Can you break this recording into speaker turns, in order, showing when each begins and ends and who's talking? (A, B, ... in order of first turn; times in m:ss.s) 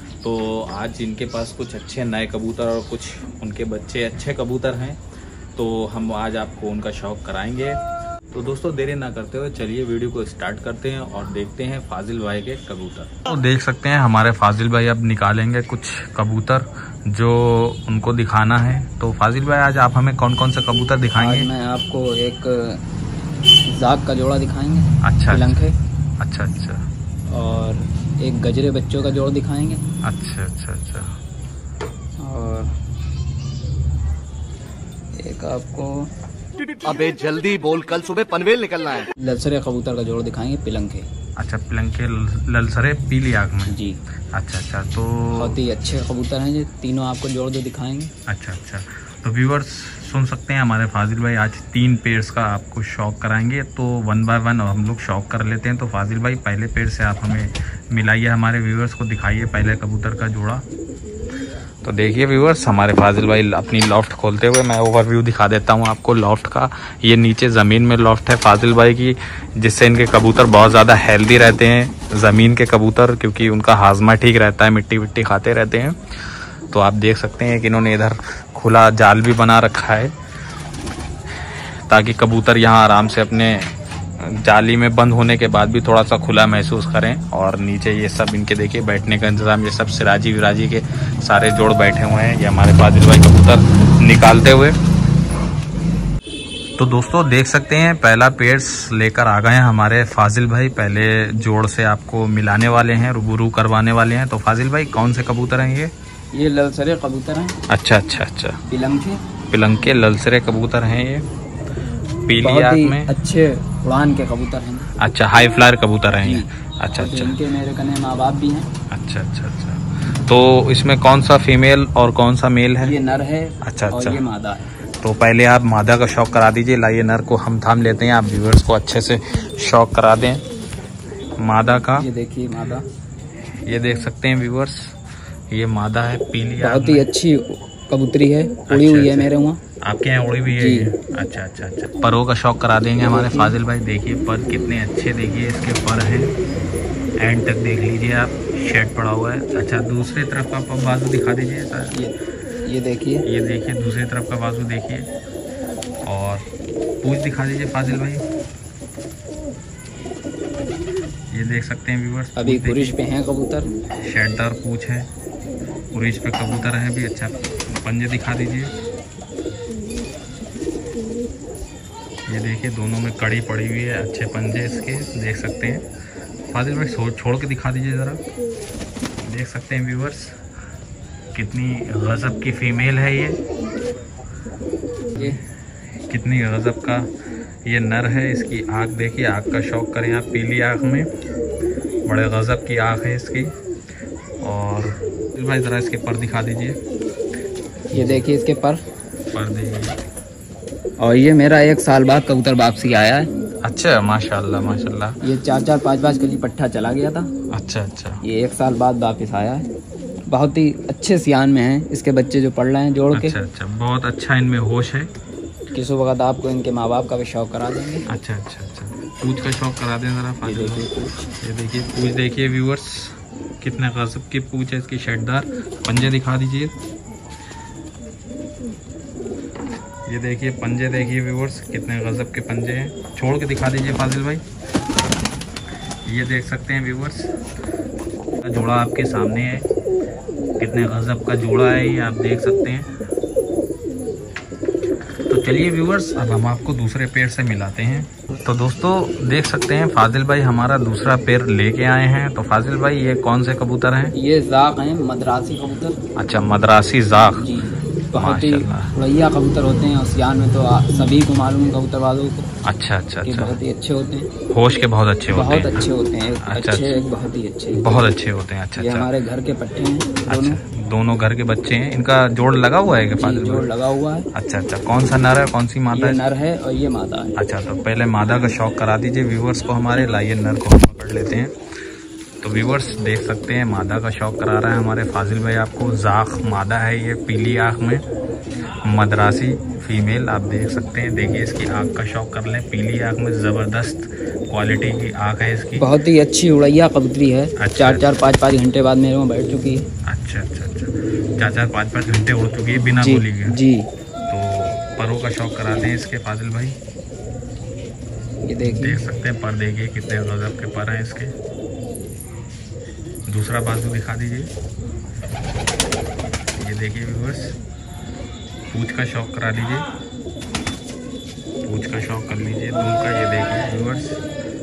0:00.2-0:05.0 A
0:05.6-0:07.8 A
0:08.3-0:21.5 A
0:21.2-0:22.8 B
0:23.7-0:25.7 B
0:25.0-0:25.6 A
0:26.2-0:26.8 A
0:27.3-0:29.8 B
0:30.0-0:31.1 A
0:32.2-0:32.8 B
0:35.2-0:36.1 B
0:36.8-0:39.1 C
0:39.2-0:41.1 B
0:41.4-0:43.7 A
0:43.7-0:44.0 B
0:44.3-0:45.6 A
0:45.4-0:48.1 B
0:48.3-1:00.6 A
1:01.8-1:16.0 A
1:16.7-1:20.1 A
1:21.9-1:34.8 A
1:36.8-1:45.9 A
1:46.3-1:47.6 B
1:47.7-1:48.6 A
1:48.7-1:49.2 B
1:49.5-1:51.2 A
1:52.3-1:53.1 A
1:52.4-1:54.9 B
1:55.0-1:57.3 A
1:56.2-1:58.7 B
1:58.9-2:02.9 A
2:02.8-2:04.7 B
2:03.6-2:04.2 A
2:05.0-2:10.4 A
2:11.4-2:12.1 A
2:11.9-2:12.8 B
2:13.5-2:14.9 A
2:15.5-2:17.0 A
2:16.6-2:19.6 B
2:18.7-2:19.3 A
2:19.8-2:26.3 A
2:20.5-2:20.9 B
2:23.0-2:23.5 B
2:27.2-2:32.0 A
2:31.9-2:33.2 B
2:33.2-2:35.1 A
2:36.0-2:36.4 A
2:37.0-2:38.2 A
2:41.3-2:43.0 A
2:42.4-2:43.7 B
2:44.0-2:45.1 A
2:45.9-2:48.7 A
2:52.3-2:55.8 A
2:56.5-2:58.2 A
2:59.2-3:00.3 A
3:01.3-3:03.4 A
3:06.1-3:07.1 A
3:07.6-3:11.1 A
3:12.1-3:13.5 A
3:14.4-3:16.8 A
3:17.9-3:18.8 B
3:17.9-3:18.2 A
3:19.3-3:20.0 A
3:21.0-3:23.3 B
3:23.6-3:25.2 A
3:25.2-3:27.3 B
3:27.5-3:28.2 A
3:28.2-3:29.7 B
3:30.3-3:33.4 B
3:33.1-3:35.1 A
3:35.7-3:38.0 B
3:38.1-3:40.8 A
3:40.4-3:41.2 B
3:41.4-3:46.7 A
3:50.1-3:54.4 A
3:56.0-3:57.3 A
3:58.4-3:59.6 A
4:00.6-4:02.9 A
4:05.3-4:14.1 A
4:14.1-4:16.0 B
4:16.2-4:17.4 A
4:17.3-4:22.5 B
4:18.2-4:18.9 A
4:22.6-4:23.6 A
4:23.2-4:24.3 B
4:24.5-4:25.9 A
4:25.3-4:27.8 B
4:26.4-4:26.9 A
4:27.7-4:29.1 A
4:28.8-4:30.6 B
4:30.3-4:33.7 A
4:33.2-4:34.3 B
4:34.3-4:36.2 A
4:35.9-4:37.3 B
4:37.4-4:41.5 A
4:42.4-4:48.0 A
4:48.8-4:55.9 A
4:55.8-4:59.8 B
4:57.6-4:58.0 A
5:00.1-5:03.6 A
5:02.8-5:03.9 B
5:04.3-5:06.8 A
5:08.5-5:09.0 B
5:08.6-5:11.3 A
5:13.3-5:14.5 A
5:16.6-5:17.5 A
5:18.7-5:19.8 A
5:21.6-5:24.2 A